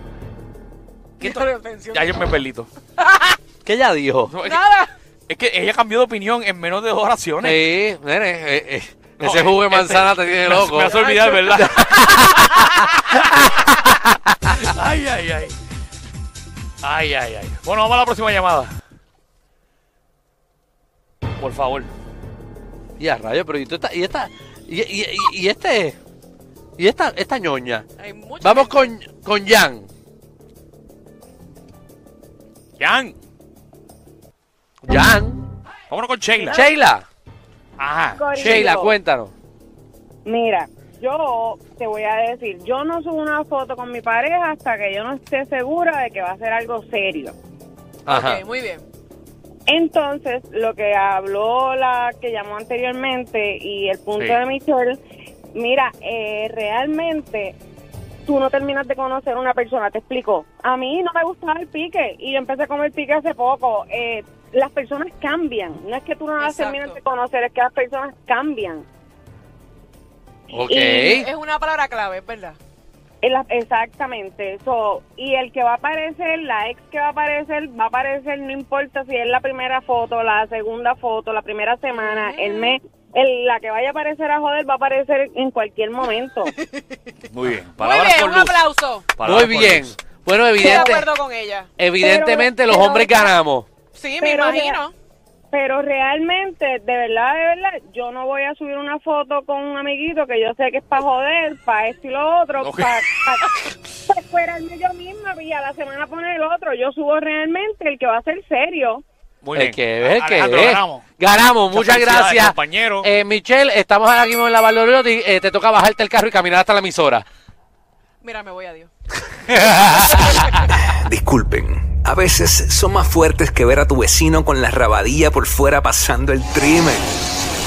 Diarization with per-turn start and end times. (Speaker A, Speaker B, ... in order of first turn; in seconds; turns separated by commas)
Speaker A: 1.2-2.7, Speaker B: 1.2-2.1, Speaker C: 3.6-4.3, Speaker A: 4.3-4.6, Speaker B: 4.4-4.9, Speaker A: 5.3-7.6, Speaker C: 7.4-12.6, Speaker A: 9.2-13.8, Speaker A: 14.5-15.5, Speaker A: 16.8-18.7, Speaker A: 21.4-21.9, Speaker C: 23.0-26.0, Speaker C: 26.8-27.9, Speaker B: 28.0-28.9, Speaker C: 28.4-29.9, Speaker A: 32.8-33.1, Speaker C: 34.8-35.4, Speaker A: 35.9-36.6, Speaker D: 36.4-36.7, Speaker C: 36.5-37.0, Speaker A: 37.8-38.6, Speaker D: 38.1-38.9, Speaker C: 38.3-39.3, Speaker D: 40.2-47.3, Speaker C: 48.0-48.4, Speaker B: 48.1-48.8, Speaker D: 49.7-55.0, Speaker D: 55.5-57.5, Speaker D: 58.2-68.8, Speaker B: 66.4-67.0, Speaker C: 70.5-71.3, Speaker D: 70.7-71.2, Speaker B: 71.1-72.6, Speaker D: 73.2-86.5, Speaker B: 81.9-82.8, Speaker A: 87.3-89.9, Speaker B: 87.8-89.1, Speaker C: 89.2-91.1, Speaker B: 90.6-91.7, Speaker D: 90.6-91.0, Speaker C: 91.8-93.7, Speaker D: 92.0-93.3, Speaker B: 93.9-94.9, Speaker D: 94.2-94.8, Speaker D: 95.5-103.5, Speaker A: 102.6-103.7, Speaker D: 104.1-109.0, Speaker A: 109.4-111.0, Speaker C: 109.5-117.2, Speaker A: 111.7-113.1, Speaker B: 118.2-118.9, Speaker C: 119.5-120.3, Speaker B: 119.8-120.7, Speaker E: 120.9-127.1